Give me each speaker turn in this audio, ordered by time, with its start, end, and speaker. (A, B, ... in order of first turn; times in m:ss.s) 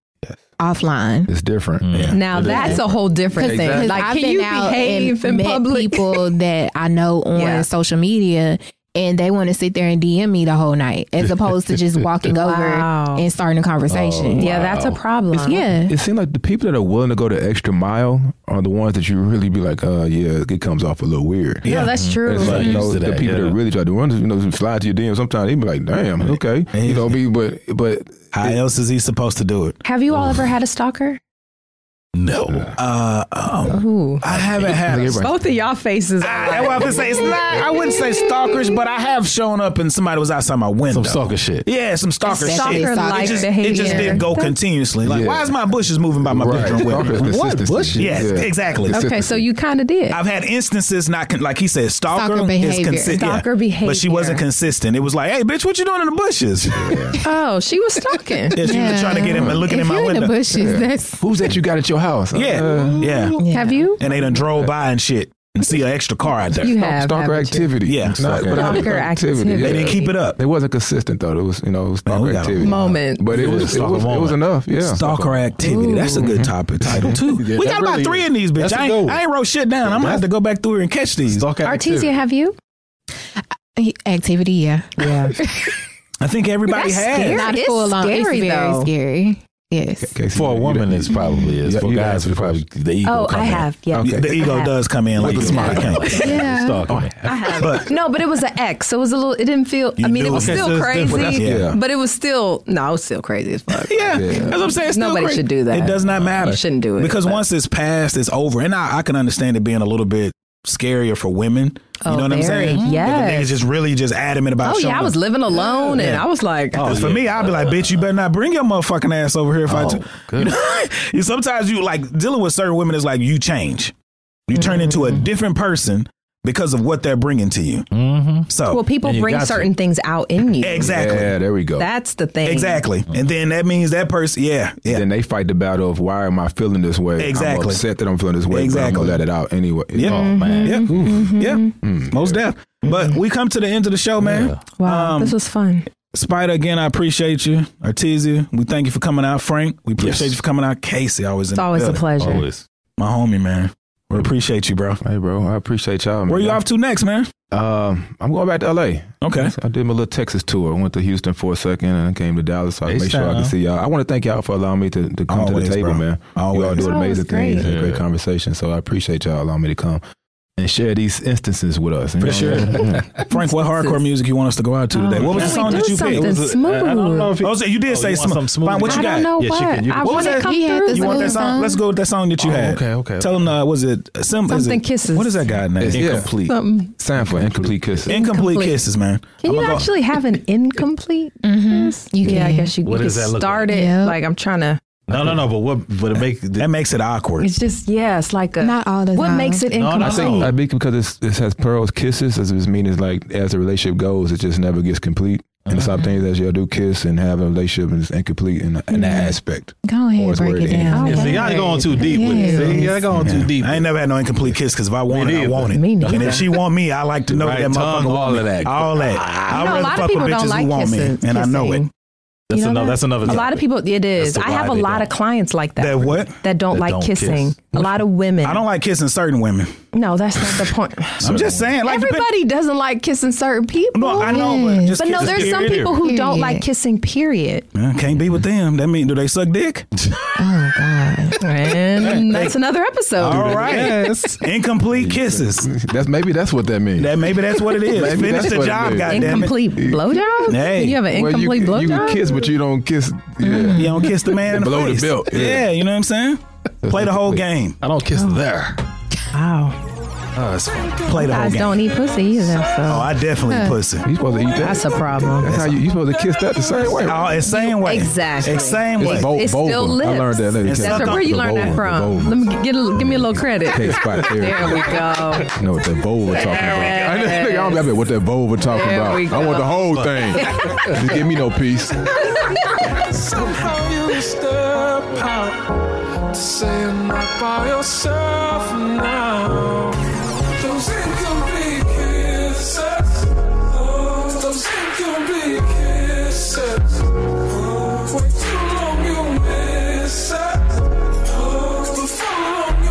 0:00.6-0:01.3 A
0:01.3-0:02.4 B
0:01.8-0:02.9 C
0:02.1-0:06.2 D
0:02.4-0:02.8 A
0:03.3-0:14.6 A
0:03.4-0:04.0 B
0:07.3-0:07.7 D
0:12.4-0:13.2 D
0:13.9-0:15.0 C
0:14.4-0:15.6 D
0:15.4-0:15.9 A
0:15.8-0:28.6 B
0:21.6-0:21.9 E
0:21.6-0:22.9 D
0:21.6-0:23.6 C
0:26.3-0:27.1 E
0:28.3-0:29.8 E
0:29.8-0:31.2 D
0:32.1-0:32.7 C
0:32.8-0:35.3 E
0:33.7-0:34.2 D
0:34.3-0:35.3 B
0:35.2-0:37.9 D
0:36.2-0:47.2 E
0:40.9-0:41.6 C
0:42.2-0:44.3 A
0:42.3-0:44.5 D
0:45.0-0:45.5 B
0:46.2-0:49.4 B
0:46.5-0:48.4 C
0:48.0-0:49.0 E
0:48.9-0:50.2 D
0:50.1-0:57.1 E
0:52.1-0:53.2 A
0:53.1-0:54.4 D
0:56.7-0:57.2 B
0:57.2-0:58.6 D
0:58.5-1:00.4 E
0:58.6-1:01.2 A
0:59.2-0:59.7 B
1:00.5-1:03.1 B
1:02.3-1:03.4 E
1:02.5-1:03.4 C
1:03.4-1:03.9 A
1:03.4-1:04.0 D
1:04.0-1:06.7 E
1:04.0-1:04.7 B
1:06.6-1:07.7 D
1:06.6-1:15.0 B
1:07.9-1:08.7 E
1:08.0-1:08.8 C
1:08.5-1:10.1 D
1:09.6-1:10.4 E
1:12.0-1:12.7 E
1:12.6-1:13.3 D
1:13.3-1:15.5 C
1:14.8-1:21.5 E
1:15.6-1:16.2 D
1:16.2-1:17.2 B
1:16.8-1:19.2 C
1:19.8-1:20.2 C
1:21.2-1:22.1 C
1:21.6-1:22.6 D
1:23.8-1:25.8 A
1:25.0-1:25.4 D
1:26.2-1:27.4 E
1:26.7-1:28.9 D
1:27.2-1:30.1 A
1:30.0-1:32.6 B
1:30.3-1:33.7 C
1:33.0-1:34.8 D
1:33.9-1:34.3 B
1:34.0-1:36.2 E
1:35.1-1:37.6 C
1:35.2-1:36.2 B
1:35.4-1:36.3 D
1:36.2-1:36.8 A
1:36.9-1:37.3 B
1:37.2-1:47.4 D
1:37.6-1:37.9 E
1:40.0-1:41.7 E
1:40.3-1:41.3 C
1:41.1-1:41.8 B
1:43.8-1:55.2 E
1:43.9-1:44.6 B
1:46.0-1:46.4 C
1:52.0-1:53.6 D
1:52.4-1:53.0 C
1:54.6-1:57.0 D
1:55.6-1:56.2 C
1:56.7-1:58.1 C
1:56.8-2:03.9 E
1:59.7-2:00.6 C
2:04.5-2:07.9 E
2:04.5-2:05.2 D
2:07.9-2:08.5 C
2:08.5-2:08.8 E
2:08.7-2:11.0 D
2:09.0-2:09.7 C
2:10.6-2:11.3 E
2:10.8-2:11.9 B
2:11.8-2:12.8 D
2:12.4-2:15.0 E
2:14.9-2:20.3 B
2:17.2-2:17.8 E
2:18.5-2:19.2 E
2:19.9-2:25.3 E
2:20.0-2:21.3 C
2:20.1-2:21.8 D
2:21.8-2:22.4 B
2:22.8-2:23.2 D
2:24.2-2:24.6 C
2:24.8-2:25.9 D
2:26.1-2:32.1 E
2:30.0-2:30.4 C
2:31.5-2:32.4 D
2:32.2-2:32.6 C
2:33.0-2:35.0 E
2:35.0-2:36.6 B
2:36.3-2:37.3 E
2:37.5-2:50.0 B
2:39.2-2:39.5 E
2:42.8-2:43.5 C
2:45.3-2:46.9 E
2:46.8-2:47.7 D
2:47.6-2:48.0 C
2:50.6-2:53.1 B
2:52.2-2:56.3 E
2:52.2-2:53.2 C
2:53.3-2:54.0 D
2:54.9-2:57.3 D
2:55.1-3:00.4 C
2:57.4-2:59.3 E
2:58.8-3:01.5 D
3:00.0-3:06.3 E
3:00.2-3:01.8 A
3:02.4-3:03.6 C
3:04.5-3:05.4 D
3:05.8-3:06.3 B
3:05.9-3:06.6 C
3:06.4-3:06.9 D
3:07.0-3:08.1 B
3:07.1-3:08.0 C
3:08.1-3:09.9 E
3:08.1-3:08.7 D
3:09.4-3:14.8 D
3:11.4-3:12.7 A
3:12.8-3:13.7 C
3:13.7-3:14.2 A
3:15.1-3:16.7 C
3:15.1-3:15.4 B
3:16.6-3:17.5 E
3:17.4-3:20.5 D
3:18.6-3:19.6 A
3:19.7-3:20.5 C
3:20.0-3:31.1 B
3:25.6-3:26.0 C
3:28.9-3:33.0 A
3:30.9-3:32.9 D
3:31.0-3:33.9 C
3:33.1-3:33.4 B
3:33.2-3:41.8 E
3:35.1-3:36.6 C
3:35.7-3:36.5 D
3:37.3-3:39.9 C
3:39.5-3:41.9 D
3:42.5-3:43.6 C
3:42.5-3:48.6 D
3:44.2-3:45.1 C
3:45.8-3:46.3 E
3:46.7-3:48.0 C
3:48.4-3:49.8 E
3:49.9-3:57.7 D
3:51.2-3:52.3 E
3:51.2-3:51.7 C
3:53.9-3:55.9 E
3:54.2-3:55.0 A
3:55.1-3:56.0 C
3:56.0-3:56.6 A
3:57.7-3:59.9 E
4:00.0-4:00.3 C
4:00.4-4:01.4 A
4:01.4-4:03.9 D
4:02.0-4:02.5 C
4:02.1-4:02.5 E
4:03.2-4:05.7 E
4:03.2-4:04.4 C
4:04.9-4:10.0 B
4:07.0-4:09.5 E
4:09.0-4:12.5 D
4:10.5-4:11.0 E
4:11.1-4:15.7 B
4:13.4-4:14.0 A
4:13.7-4:17.8 E
4:16.8-4:17.4 B
4:17.8-4:18.8 C
4:19.3-4:19.8 D
4:20.3-4:22.3 C
4:21.0-4:21.9 E
4:21.1-4:23.1 D
4:22.8-4:24.1 E
4:23.4-4:23.7 A
4:24.0-4:27.5 B
4:24.6-4:25.5 D
4:25.5-4:25.8 E
4:27.0-4:29.4 E
4:27.4-4:35.5 D
4:29.0-4:32.5 B
4:30.6-4:31.3 E
4:33.7-4:42.2 B
4:36.3-4:37.8 D
4:38.6-4:39.7 D
4:39.9-4:41.0 C
4:42.3-4:42.7 D
4:44.6-4:45.3 C
4:46.4-4:49.0 F
4:50.7-4:52.9 F
4:54.0-4:56.8 F
4:57.9-5:00.4 F
5:01.7-5:02.5 F